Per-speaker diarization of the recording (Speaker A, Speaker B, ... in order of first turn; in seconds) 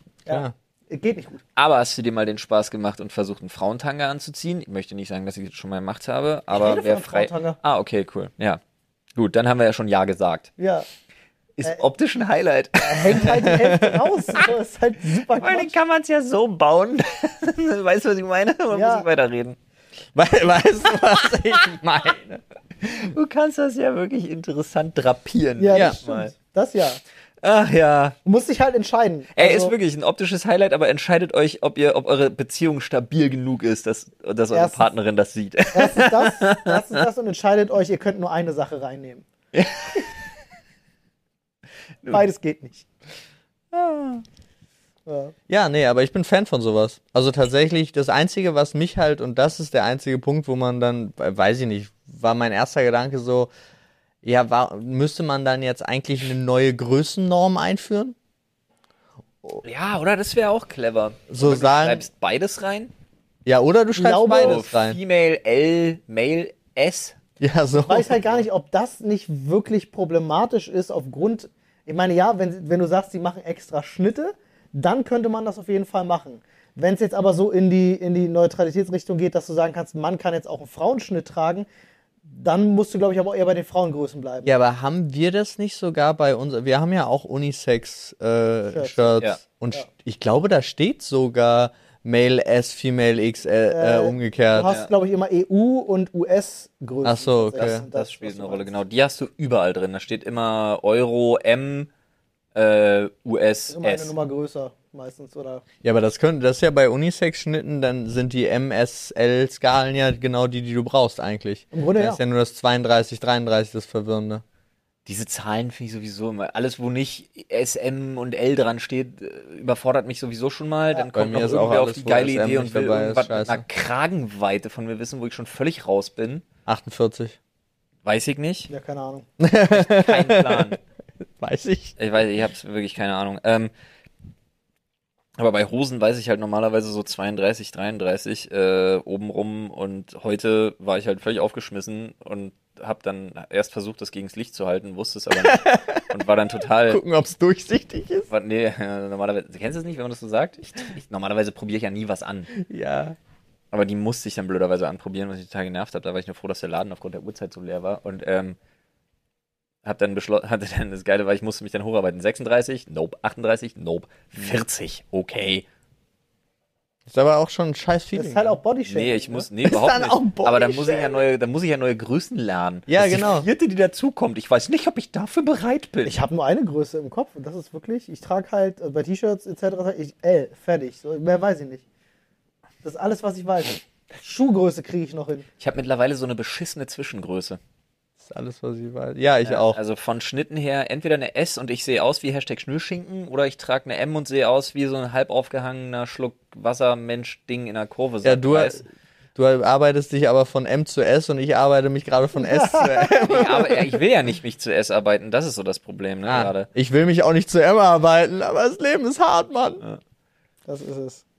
Speaker A: 0.2-1.4, 6.5-7.6, 10.6-10.9, 12.8-15.7, 18.7-19.1, 25.6-27.0, 28.2-29.7, 34.5-34.9, 35.7-39.2, 42.1-42.9, 45.0-45.3, 64.0-64.6, 67.8-81.7, 82.3-84.5, 88.7-89.2, 93.7-98.8, 103.7-105.6, 111.7-112.2, 128.7-129.2, 168.1-169.5, 176.0-181.8, 182.8-185.5, 202.4-203.3, 210.7-211.2
Speaker B: 1.6-8.6, 9.2-10.5, 11.6-13.6, 15.4-19.6, 22.8-26.3, 27.4-28.1, 29.4-37.0, 39.5-40.1, 59.6-62.9, 64.4-67.2, 94.6-94.9, 97.6-101.9, 102.5-104.1, 115.0-126.4, 128.0-128.7, 129.7-130.8, 132.0-133.7, 135.4-147.0, 148.3-152.5, 153.7-158.6, 159.8-165.6, 168.9-176.2, 185.6-187.6, 189.4-198.8, 203.3-206.7
Speaker C: 13.3-14.1, 20.1-22.4, 43.7-44.2, 45.5-53.5, 54.2-58.1, 61.3-62.0, 63.5-65.0, 67.4-68.2, 84.4-94.7, 97.0-97.8, 105.8-114.4, 121.1-123.6, 126.7-127.4, 129.4-130.8, 131.4-131.9, 145.3-146.1, 146.9-148.3, 152.5-153.2, 167.1-168.6, 169.6-171.2, 172.9-173.5, 188.2-189.8, 198.2-204.0, 206.2-209.8